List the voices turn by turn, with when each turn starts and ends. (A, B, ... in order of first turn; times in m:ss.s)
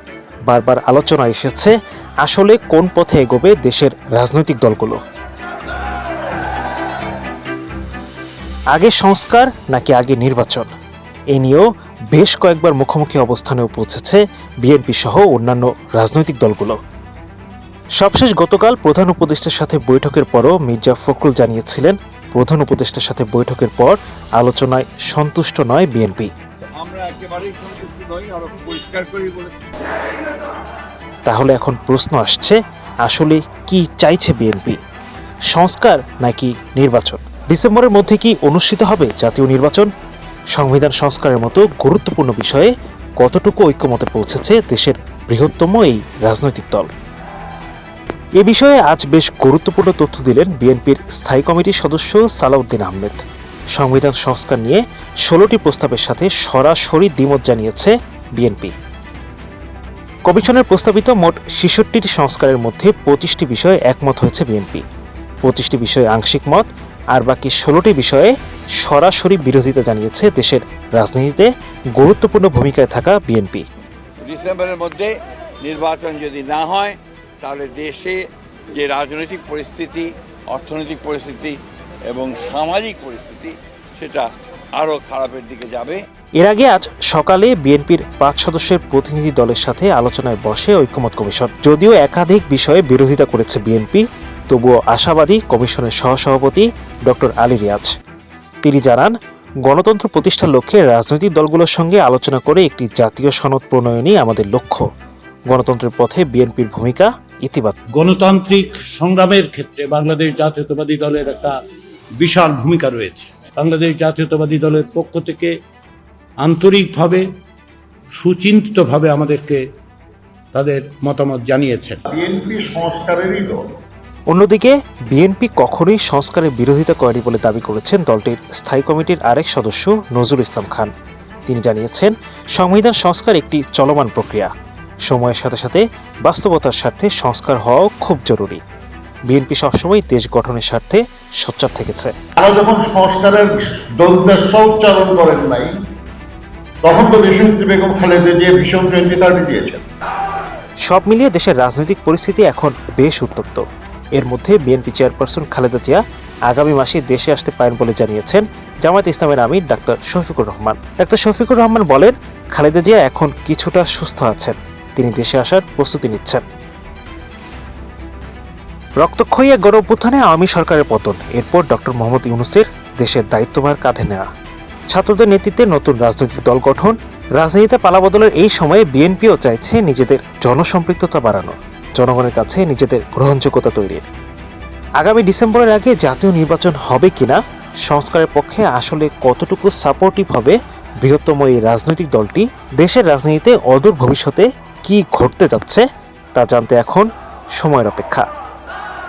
0:00.5-0:05.0 A
0:08.7-0:10.7 A
0:11.3-0:16.8 A
0:18.0-0:26.3 A
0:26.7-0:29.6 B
0:31.3-0:34.8 A
0:35.5-0:39.9 A
0:40.5-0:46.9 A
0:48.4-0:53.2 A
0:53.7-0:58.7 A
1:00.2-1:04.8 A
1:05.4-1:13.6 A
1:14.2-1:18.2 B
1:18.7-1:21.6 B
1:22.1-1:26.0 B
1:26.4-1:37.9 A
1:38.6-1:44.8 A
1:45.5-1:47.8 A
1:47.9-1:51.6 C
1:52.2-1:55.6 C
1:56.4-1:57.2 C
1:58.1-1:59.6 C
2:00.5-2:02.0 C
2:02.1-2:03.6 D
2:04.3-2:10.9 A
2:11.5-2:14.5 A
2:15.1-2:18.6 A
2:19.3-2:22.1 A
2:22.4-2:25.8 D
2:26.8-2:29.8 D
2:30.9-2:46.4 A
2:49.0-2:54.3 A
2:54.9-3:04.0 A
3:05.0-3:18.3 A